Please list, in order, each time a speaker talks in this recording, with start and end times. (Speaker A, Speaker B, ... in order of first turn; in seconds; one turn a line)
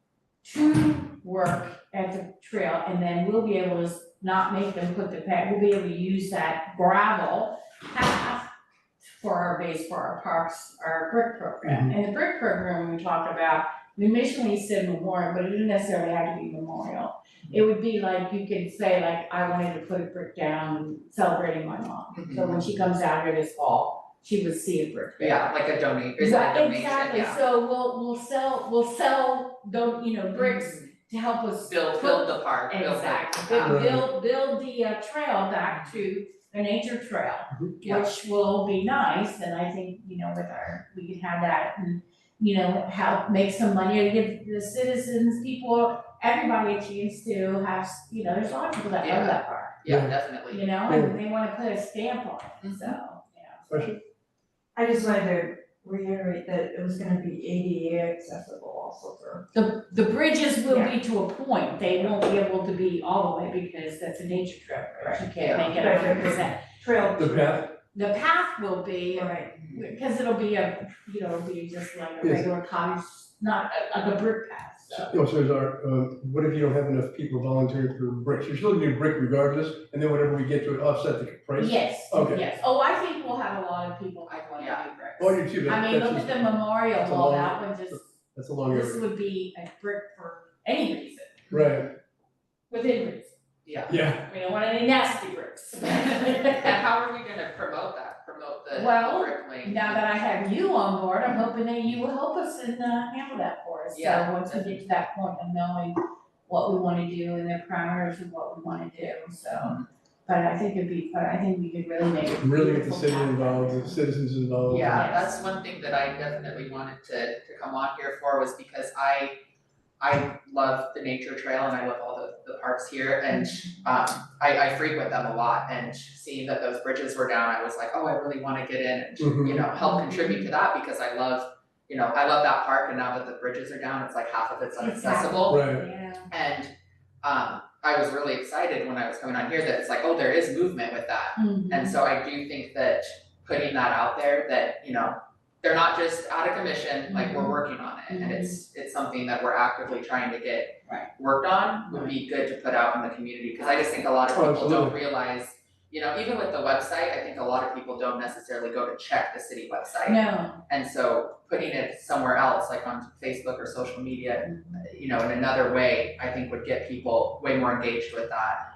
Speaker A: 0.4-8.5
Speaker A: 9.1-25.5
Speaker B: 11.6-11.9
Speaker C: 22.1-22.7
Speaker C: 25.2-27.4
Speaker A: 26.2-49.8
Speaker C: 30.4-30.9
Speaker C: 31.6-33.9
Speaker B: 33.6-34.0
Speaker C: 35.6-36.0
Speaker C: 49.0-50.6
Speaker B: 49.9-50.1
Speaker A: 50.5-53.8
Speaker B: 50.9-51.1
Speaker C: 52.6-53.0
Speaker B: 53.7-54.0
Speaker D: 54.7-59.4
Speaker A: 59.5-66.6
Speaker C: 65.4-65.7
Speaker D: 65.7-67.7
Speaker B: 67.2-67.7
Speaker A: 67.9-75.1
Speaker D: 69.1-69.5
Speaker C: 69.5-69.8
Speaker B: 72.2-72.5
Speaker B: 75.0-82.4
Speaker A: 81.6-88.0
Speaker C: 84.3-84.8
Speaker B: 85.2-89.0
Speaker A: 88.7-91.5
Speaker B: 91.5-91.9
Speaker A: 92.7-93.3
Speaker C: 93.6-93.9
Speaker B: 93.9-94.2
Speaker A: 94.2-96.7
Speaker C: 96.4-100.1
Speaker A: 98.7-114.0
Speaker C: 103.9-104.8
Speaker C: 109.6-109.8
Speaker B: 112.4-115.0
Speaker C: 114.7-119.3
Speaker A: 114.9-115.3
Speaker C: 120.0-135.6
Speaker B: 129.2-129.7
Speaker A: 129.8-130.5
Speaker A: 134.8-136.3
Speaker B: 135.5-135.8
Speaker C: 136.3-168.6
Speaker A: 141.3-142.0
Speaker A: 147.1-147.6
Speaker A: 148.1-148.6
Speaker A: 151.9-152.1
Speaker B: 154.3-154.9
Speaker A: 160.1-160.6
Speaker A: 164.4-164.8